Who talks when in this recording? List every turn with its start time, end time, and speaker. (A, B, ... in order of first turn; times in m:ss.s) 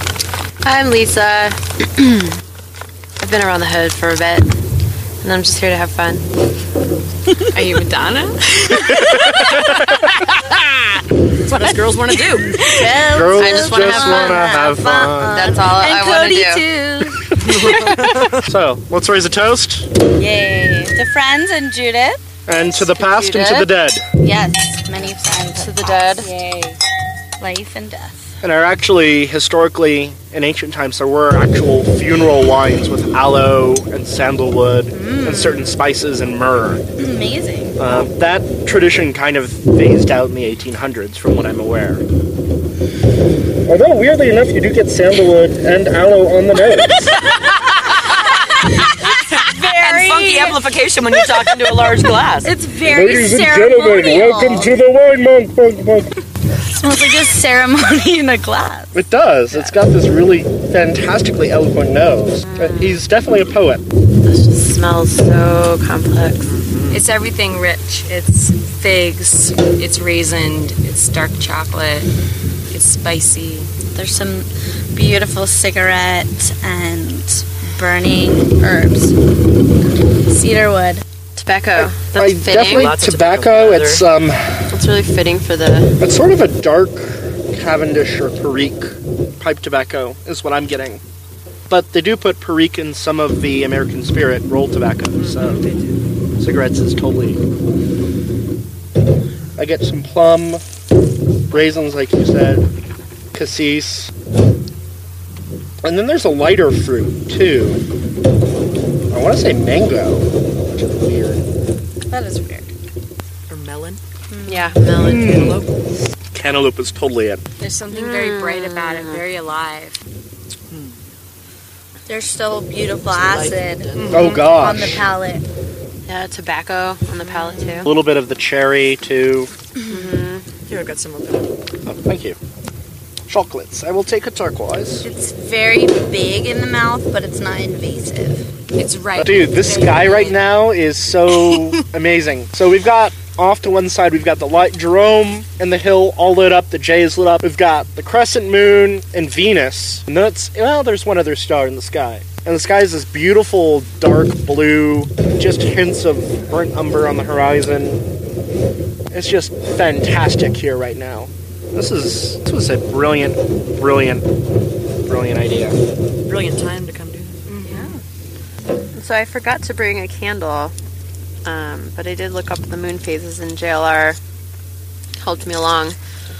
0:00.6-0:02.4 A
0:03.2-0:04.5 A
0:05.2-0:06.3 A
0:07.5-0:07.8 A
0:07.5-0:10.1 B
0:08.9-0:10.8 C
0:11.3-0:12.6 D
0:12.3-0:13.1 B
0:12.6-0:17.7 E
0:13.1-0:15.5 C
0:13.4-0:14.4 A
0:15.3-0:16.6 A
0:17.4-0:18.5 D
0:17.4-0:19.9 C
0:20.2-0:22.4 E
0:22.5-0:24.0 C
0:22.8-0:23.7 A
0:24.2-0:26.8 E
0:25.5-0:26.3 A
0:27.4-0:28.4 E
0:28.4-0:36.8 C
0:34.9-0:35.8 E
0:37.0-0:38.0 E
0:37.8-0:42.0 C
0:43.6-0:47.2 C
0:47.3-0:52.5 D
0:49.0-0:50.8 E
0:52.4-0:54.8 E
0:52.8-0:56.2 C
0:56.7-0:59.7 E
0:58.9-1:03.8 C
1:02.4-1:03.0 A
1:04.2-1:06.6 A
1:06.4-1:07.0 D
1:06.9-1:12.1 B
1:12.7-1:13.7 B
1:13.9-1:19.2 E
1:20.2-1:21.0 E
1:21.4-1:23.0 A
1:21.8-1:24.8 C
1:22.6-1:24.0 D
1:24.7-1:26.0 A
1:26.0-1:31.0 C
1:31.7-1:35.6 C
1:35.2-1:36.0 D
1:36.4-1:37.4 C
1:39.6-1:40.6 C
1:41.5-1:42.6 C
1:43.3-1:44.1 C
1:45.8-1:47.8 C
1:49.1-1:51.4 C
1:52.1-1:52.7 E
1:53.5-1:54.0 D
1:54.3-1:54.7 E
1:54.5-1:55.6 A
1:55.0-1:55.6 C
1:55.0-1:55.7 D
1:56.3-1:57.4 C
1:57.6-2:00.0 B
1:57.9-1:59.2 A
2:00.7-2:01.0 D
2:02.1-2:05.4 E
2:03.1-2:04.8 D
2:04.0-2:04.4 B
2:04.1-2:05.0 C
2:06.0-2:07.9 A
2:07.4-2:07.8 D
2:07.8-2:09.5 C
2:09.9-2:10.5 A
2:10.7-2:11.6 D
2:11.8-2:12.4 C
2:13.3-2:15.0 C
2:15.0-2:18.5 E
2:18.8-2:20.4 B
2:19.2-2:38.0 C
2:21.3-2:21.7 B
2:39.1-2:44.3 C
2:45.0-2:45.8 C
2:46.2-2:47.4 D
2:47.5-2:48.0 B
2:48.9-2:50.7 A
2:51.4-2:54.2 A
2:55.2-2:56.0 A